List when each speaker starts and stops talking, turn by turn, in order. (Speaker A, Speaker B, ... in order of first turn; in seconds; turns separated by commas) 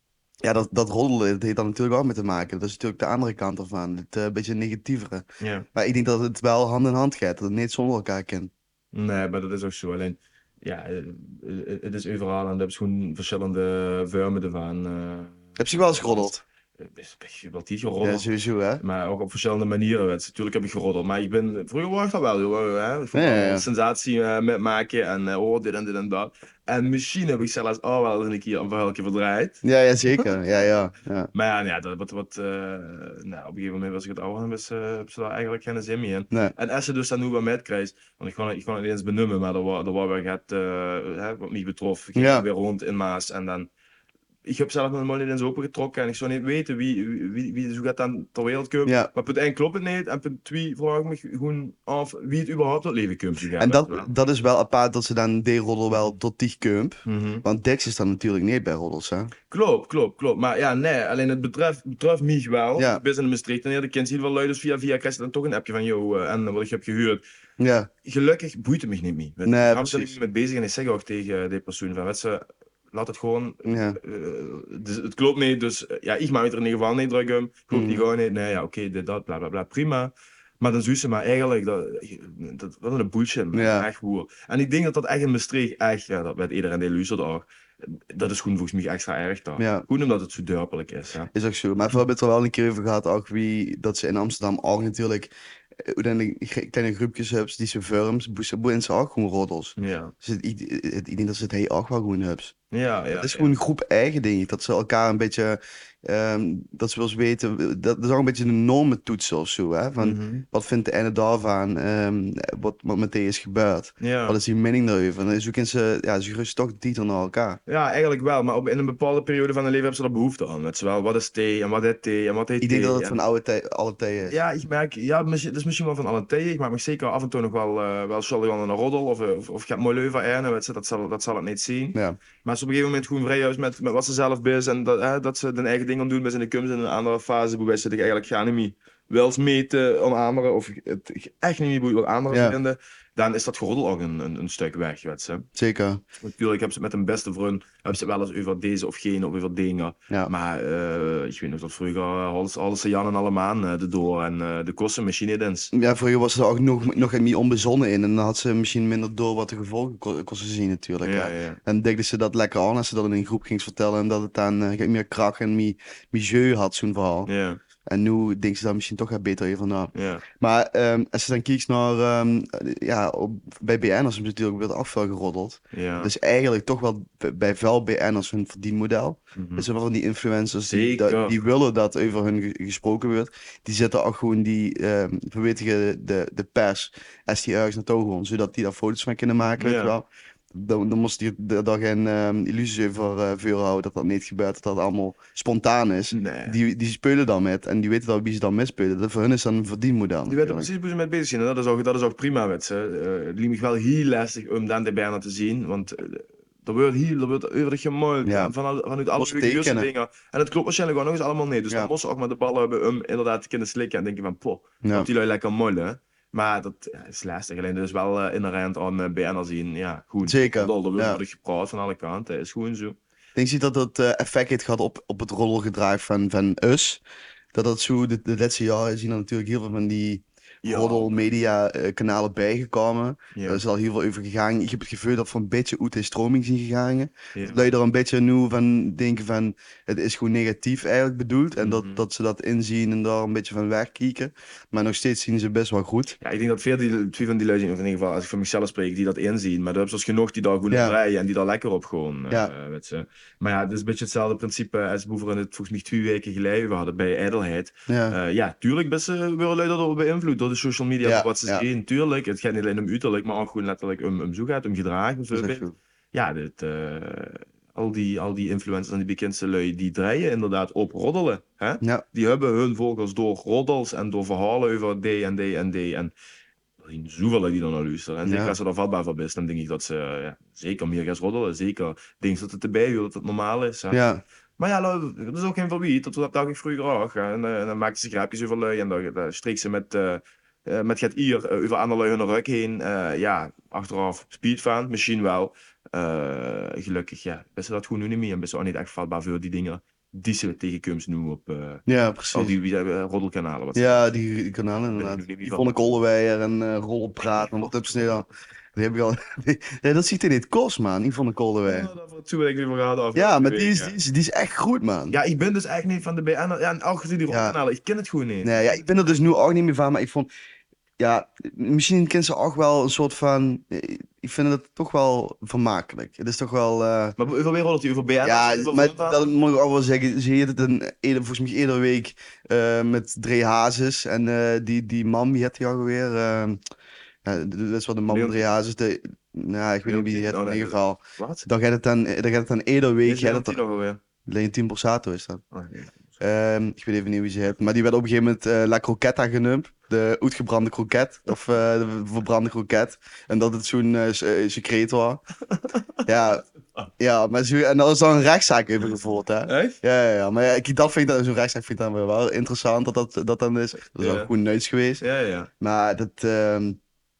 Speaker A: 0.4-8.5, Speaker B: 5.4-5.7, Speaker B: 8.9-18.3, Speaker A: 15.6-16.4, Speaker A: 18.0-18.8, Speaker B: 18.8-29.6, Speaker A: 23.1-23.7, Speaker A: 29.6-31.3, Speaker B: 31.3-43.7, Speaker A: 42.1-42.5, Speaker B: 44.5-54.1, Speaker A: 48.9-49.1, Speaker A: 53.6-59.3, Speaker B: 57.0-57.4, Speaker B: 59.5-67.2, Speaker A: 67.6-67.9, Speaker B: 68.0-91.3, Speaker A: 69.5-70.2, Speaker A: 73.7-74.0, Speaker A: 77.7-78.0, Speaker A: 83.5-83.9, Speaker A: 89.6-89.8, Speaker A: 91.3-95.3, Speaker A: 95.8-102.5, Speaker B: 99.8-100.1, Speaker B: 102.7-103.5, Speaker A: 103.1-117.6, Speaker B: 110.0-110.5, Speaker B: 114.0-114.4, Speaker B: 117.7-123.2, Speaker A: 122.6-124.4, Speaker B: 124.3-145.5, Speaker A: 131.9-132.2, Speaker A: 142.3-142.6, Speaker A: 145.6-146.0, Speaker B: 146.2-155.7, Speaker A: 155.7-167.3, Speaker B: 161.0-161.6, Speaker B: 167.3-167.6, Speaker A: 167.9-200.7, Speaker B: 169.9-170.2, Speaker B: 175.7-176.1, Speaker B: 179.4-179.7, Speaker B: 180.7-181.3, Speaker B: 189.6-189.9, Speaker B: 196.1-196.6, Speaker B: 200.3-223.0, Speaker A: 208.2-208.5, Speaker A: 209.2-209.9, Speaker A: 214.8-215.1, Speaker A: 220.2-221.2, Speaker A: 223.4-227.0, Speaker A: 227.5-246.2, Speaker B: 230.6-231.1, Speaker B: 233.3-233.6, Speaker B: 237.3-237.7, Speaker B: 241.6-242.1, Speaker B: 246.2-276.1, Speaker A: 257.9-258.2, Speaker A: 261.0-261.6, Speaker A: 265.3-265.8, Speaker B: 276.8-284.0, Speaker A: 278.2-278.6, Speaker A: 283.9-284.2, Speaker B: 284.6-304.1, Speaker A: 301.9-302.5, Speaker A: 303.8-311.9, Speaker B: 304.9-305.9, Speaker B: 307.3-308.1, Speaker B: 311.6-314.0, Speaker A: 313.1-315.2, Speaker B: 315.1-318.6, Speaker A: 317.3-317.6, Speaker A: 318.4-320.3, Speaker A: 321.0-327.2, Speaker B: 327.2-329.2, Speaker A: 328.2-336.6, Speaker A: 337.2-343.6, Speaker B: 338.1-338.4, Speaker B: 339.9-341.5, Speaker B: 343.1-344.0, Speaker A: 344.3-345.4, Speaker B: 345.5-346.2, Speaker A: 346.2-355.2, Speaker B: 355.5-356.0, Speaker A: 356.1-356.5, Speaker A: 357.0-365.0, Speaker B: 359.5-359.8, Speaker B: 364.0-364.3, Speaker B: 365.0-365.5, Speaker A: 365.6-366.8